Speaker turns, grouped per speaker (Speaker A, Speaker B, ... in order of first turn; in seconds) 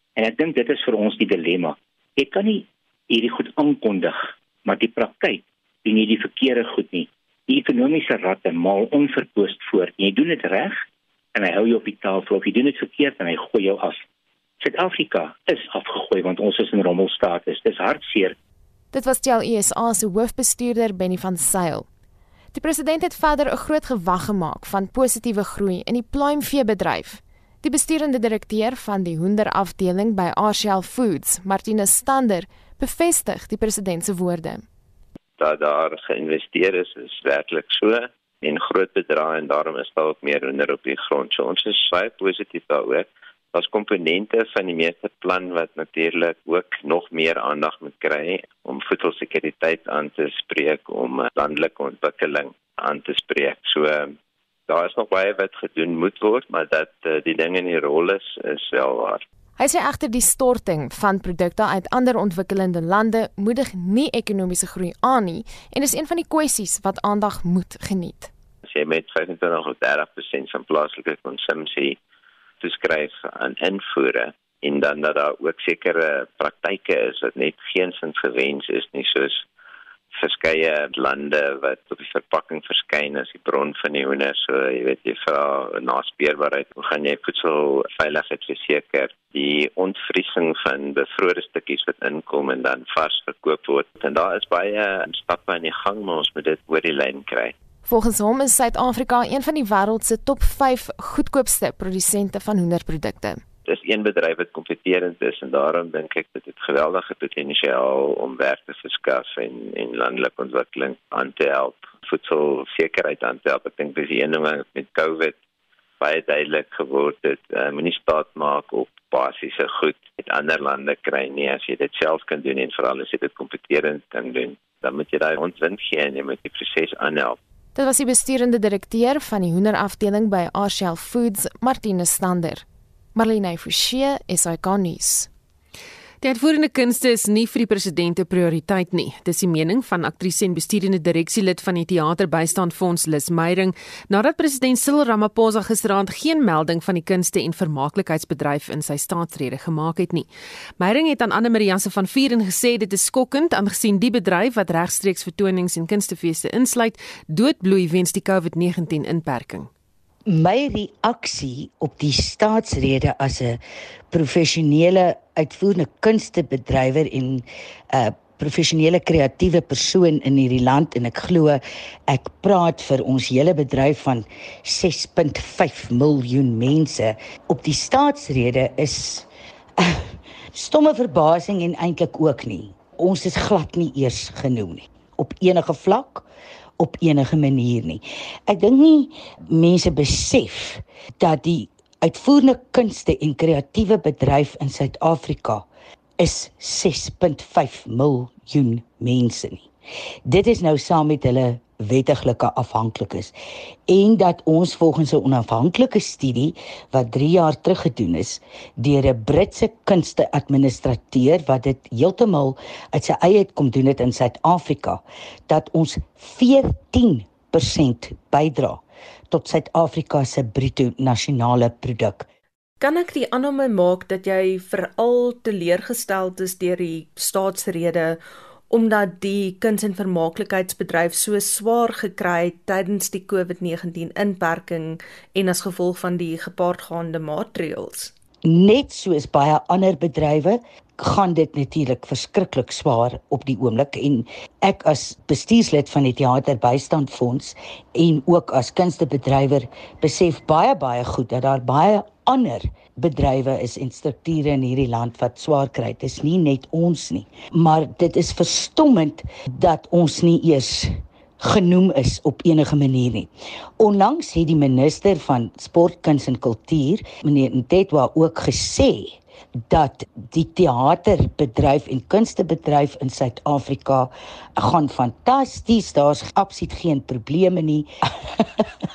Speaker A: 0.1-10.8, 11.3-14.0, 14.6-18.3
Speaker B: 18.9-21.9, 22.5-34.6, 59.6-68.3, 97.8-103.4, 127.8-135.3
Speaker C: 35.4-54.1, 54.7-59.2, 68.7-72.0, 72.6-79.4, 80.1-97.5, 103.7-115.3, 116.0-127.4
Speaker D: 136.2-150.3, 150.8-159.7
Speaker E: 160.2-186.2, 186.8-195.7, 196.2-199.7, 200.2-203.3, 203.9-222.3, 238.4-269.2, 269.7-278.7
Speaker F: 222.8-238.1